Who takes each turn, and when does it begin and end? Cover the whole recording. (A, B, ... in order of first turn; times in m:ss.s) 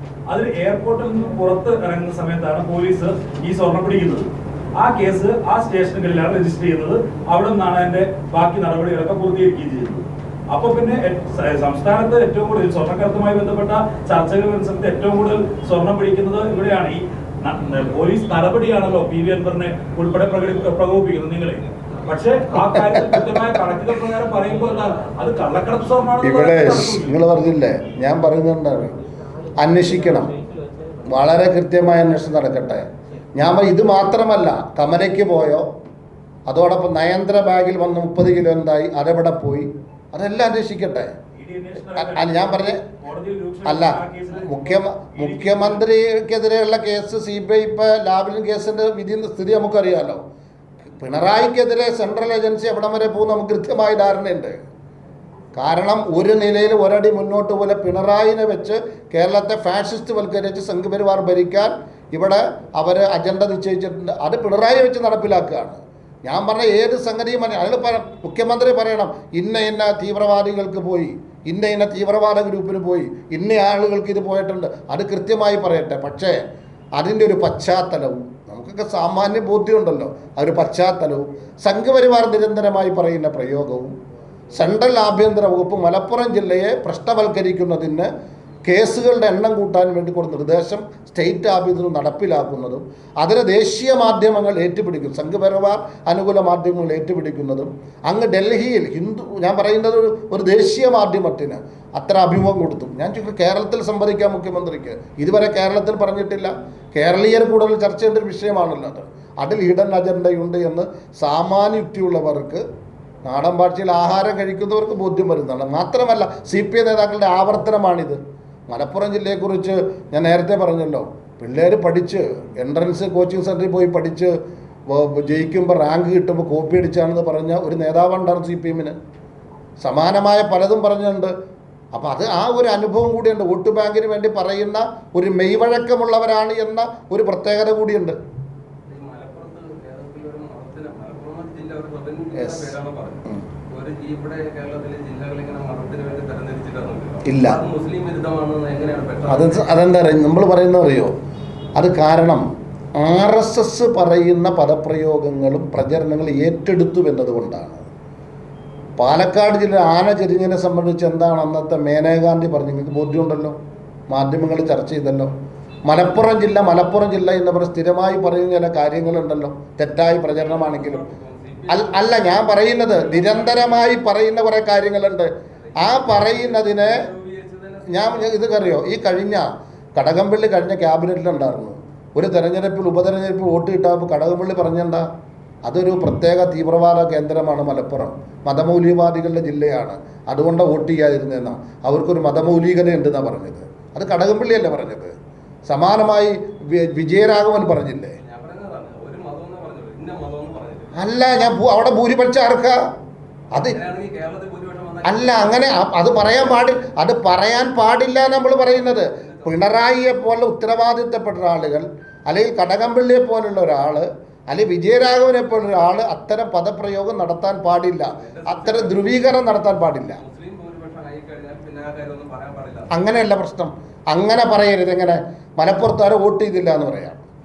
0:00.3-0:27.1 A
0:23.0-0:23.3 B
0:26.2-0:29.0 B
0:29.6-0:30.4 B
0:31.1-0:35.7 B
0:36.5-0:41.2 B
0:41.3-0:45.8 A
0:41.9-0:42.8 B
0:43.6-0:50.2 B
0:50.9-0:54.6 B
0:55.6-1:16.4 B
1:17.0-1:24.0 B
1:24.5-1:28.1 B
1:28.6-1:52.6 B
1:53.2-2:04.4 B
2:04.9-2:09.0 B
2:09.8-2:11.3 B
2:11.9-2:18.2 B
2:18.9-2:29.8 C
2:22.4-2:22.8 B
2:27.2-2:27.6 B
2:29.3-2:31.1 B
2:31.8-2:32.5 B
2:33.0-2:37.9 B
2:39.0-2:43.6 B
2:44.1-2:45.3 B
2:45.9-2:51.0 B
2:50.3-2:53.9 C
2:51.7-2:57.1 B
2:55.6-2:58.6 C
2:57.9-3:05.1 B
3:05.6-3:15.1 B
3:15.7-3:18.2 B
3:18.2-3:21.0 C
3:20.9-3:22.8 B
3:23.6-3:25.7 C
3:25.0-3:40.2 B
3:28.7-3:29.6 C
3:38.2-3:39.3 C
3:40.2-3:42.9 C
3:42.9-3:47.2 B